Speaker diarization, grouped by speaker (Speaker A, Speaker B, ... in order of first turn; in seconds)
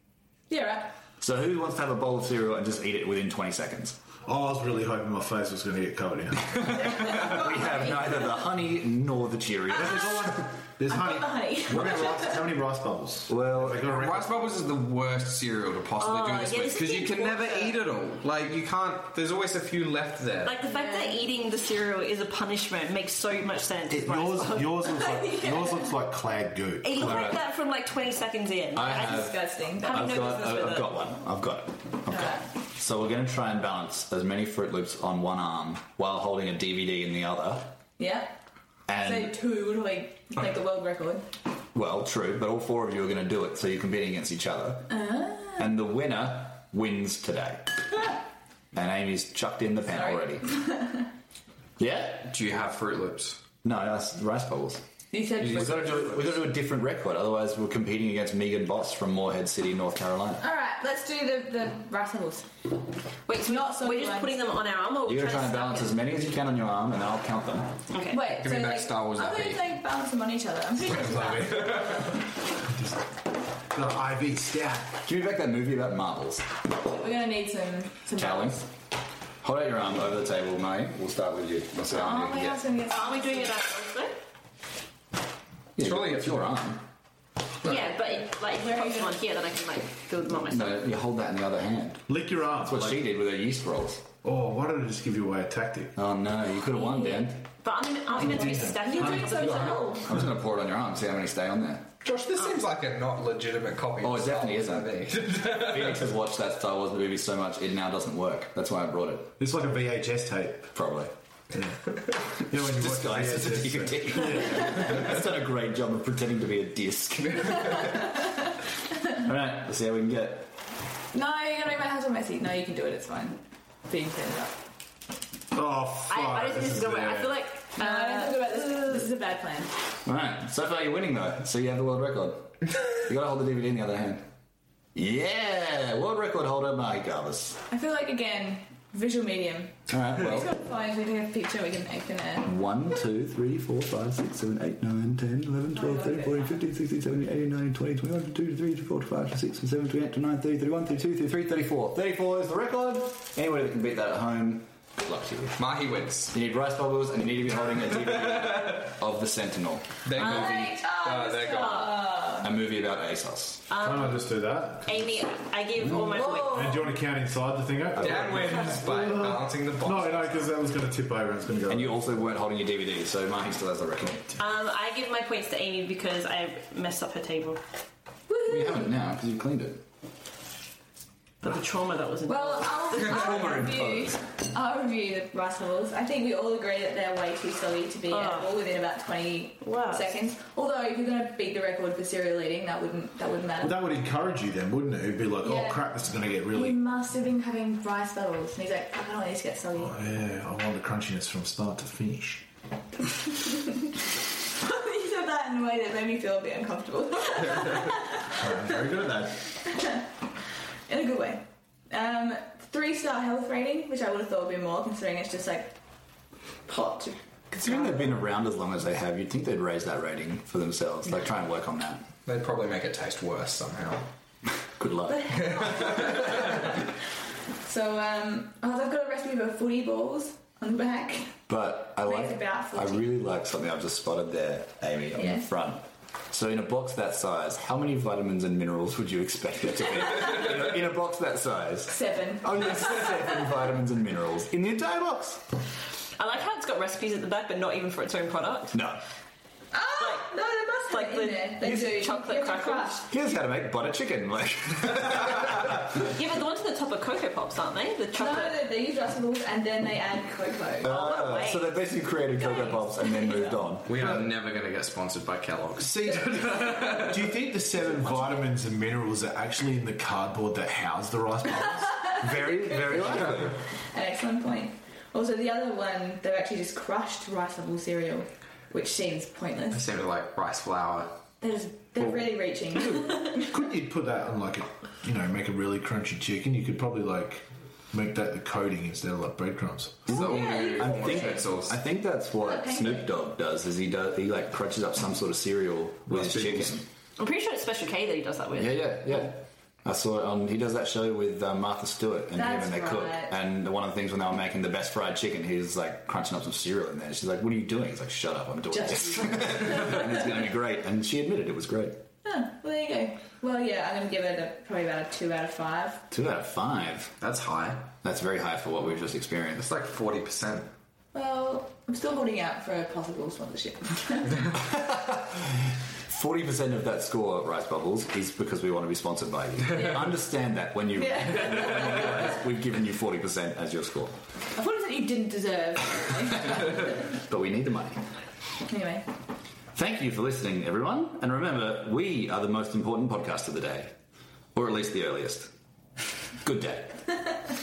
Speaker A: 0.5-0.9, 6.8-8.3, 10.9-12.4, 20.6-21.2, 24.9-25.9, 28.9-30.2, 32.1-32.4, 38.0-38.4, 39.0-41.2, 44.9-45.7, 49.9-51.1, 55.1-56.3, 60.4-62.5, 63.4-64.4, 68.1-71.8, 76.8-78.7, 81.9-83.5, 88.7-89.2, 98.2-100.1, 117.8-118.0, 121.1-124.5, 127.8-129.7, 137.7-142.5, 145.7-146.6, 160.2-162.5, 166.2-166.9, 178.3-178.8, 182.3-193.8, 195.4-195.9, 196.5-199.9, 204.6-208.5, 209.6-210.0, 210.9-215.8, 216.7-218.0, 225.1-226.7, 227.6-231.4, 232.0-233.1, 235.1-235.5, 241.9-242.8, 249.7-253.1, 258.1-261.0, 262.4-263.6, 266.1-266.9, 268.1-268.4, 272.8-279.9, 281.4-283.6, 290.1-291.4, 292.4-293.1, 302.3-303.3, 308.7-310.1, 312.2-316.0, 321.1-324.5, 329.7-330.1, 330.9-332.3, 334.5-337.1, 338.7-339.0
Speaker B: 1.2-4.0, 6.8-10.5, 11.8-12.2, 13.3-13.9, 27.0-27.4, 28.8-37.7, 38.9-39.3, 41.7-44.9, 45.6-47.6, 48.7-50.5, 51.8-52.3, 53.6-54.8, 55.4-60.4, 65.0-67.8, 75.0-76.4, 78.2-78.6, 79.4-82.6, 85.8-86.8, 90.5-94.0, 95.9-97.4, 100.0-101.9, 104.0-109.3, 110.7-111.1, 112.5-118.0, 119.1-120.5, 130.0-134.2, 134.9-137.6, 139.9-140.5, 142.4-155.6, 156.3-160.2, 162.4-163.7, 168.0-168.5, 171.7-174.3, 178.5-179.8, 182.9-184.2, 217.5-222.1, 224.8-225.4, 231.5-245.4, 248.7-249.0, 253.1-256.1, 260.8-264.2, 272.2-273.6, 290.1-296.8, 298.6-312.0, 316.1-317.1, 318.0-319.6, 324.6-334.2, 337.1-338.0, 339.7-343.9, 344.5-345.5, 346.4-347.0
Speaker C: 4.2-6.8, 9.7-14.5, 23.9-27.4, 71.0-71.8, 73.7-75.0, 92.1-93.0, 94.2-95.9, 98.1-99.9, 109.4-110.7, 111.5-115.1, 125.5-127.4, 163.8-165.1, 165.9-172.0, 193.6-196.8, 199.8-202.4, 208.2-209.4, 265.8-272.1, 283.3-290.1, 296.1-296.8
Speaker D: 13.8-20.5, 52.2-53.4, 68.3-69.7, 70.9-72.1, 85.8-86.5, 102.0-106.0, 155.6-156.3, 158.2-158.7, 160.0-162.0, 167.9-170.5, 222.2-224.1, 225.4-226.5, 263.8-267.3, 279.7-281.2, 282.0-282.3, 290.1-291.8, 317.2-317.9, 319.5-320.7
Speaker E: 16.0-17.8, 20.4-25.2, 26.8-30.9, 63.3-66.0, 67.9-68.3, 82.9-84.2, 87.6-90.8, 97.0-99.9, 126.1-129.1, 160.2-160.7, 161.6-162.1, 163.7-164.2, 164.8-166.9, 174.4-177.6, 181.4-183.7, 188.1-188.5, 189.6-190.1, 246.2-248.8, 250.0-253.0, 256.0-258.6, 260.8-261.7, 297.2-299.2